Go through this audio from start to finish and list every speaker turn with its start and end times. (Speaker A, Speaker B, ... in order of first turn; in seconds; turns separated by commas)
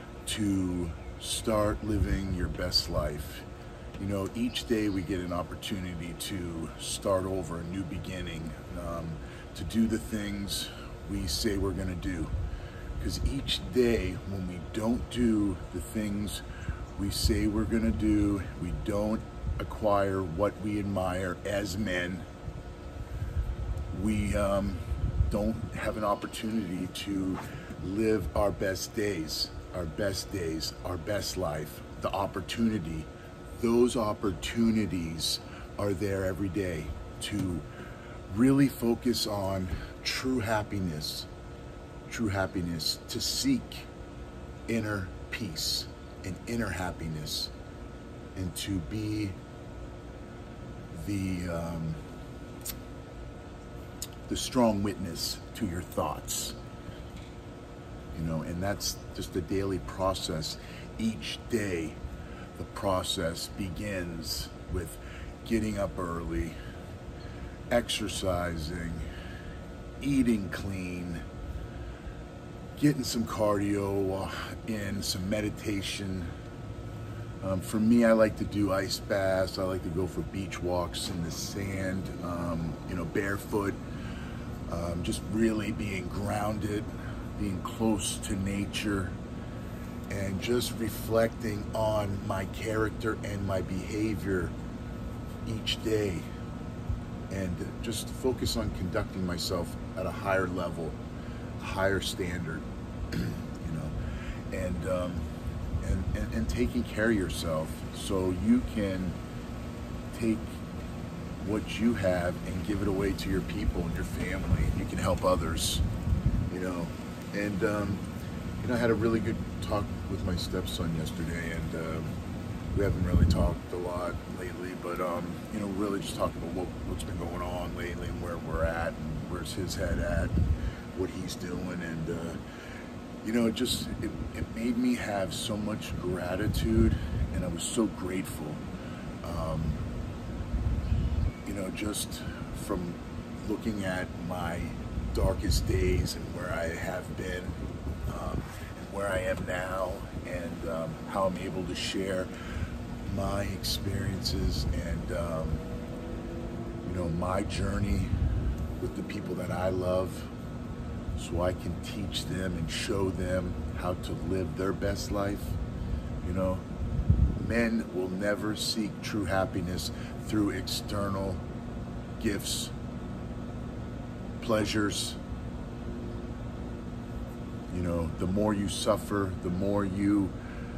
Speaker A: 0.2-3.5, Speaker A: 4.0-12.3, Speaker A: 13.0-16.4, Speaker A: 17.0-22.3, Speaker A: 23.9-37.6, Speaker A: 38.3-41.3, Speaker A: 42.1-43.9, Speaker A: 44.7-47.5, Speaker A: 48.4-49.4, Speaker A: 50.9-52.0, Speaker A: 54.3-56.6, Speaker A: 58.1-62.0, Speaker A: 62.6-66.6, Speaker A: 67.7-69.1, Speaker A: 70.0-71.2, Speaker A: 72.8-76.3, Speaker A: 77.4-83.8, Speaker A: 84.7-89.2, Speaker A: 90.1-94.5, Speaker A: 95.5-96.2, Speaker A: 97.3-101.0, Speaker A: 101.6-103.9, Speaker A: 104.5-105.3, Speaker A: 105.8-109.2, Speaker A: 110.1-110.6, Speaker A: 111.4-115.8, Speaker A: 116.5-118.0, Speaker A: 118.6-122.1, Speaker A: 122.7-130.4, Speaker A: 130.9-132.4, Speaker A: 133.2-138.6, Speaker A: 139.2-139.8, Speaker A: 141.5-152.3, Speaker A: 153.1-155.7, Speaker A: 156.8-158.1, Speaker A: 158.8-160.3, Speaker A: 161.2-165.6, Speaker A: 166.2-166.7, Speaker A: 167.4-171.4, Speaker A: 172.2-172.7, Speaker A: 174.4-175.2, Speaker A: 177.7-180.3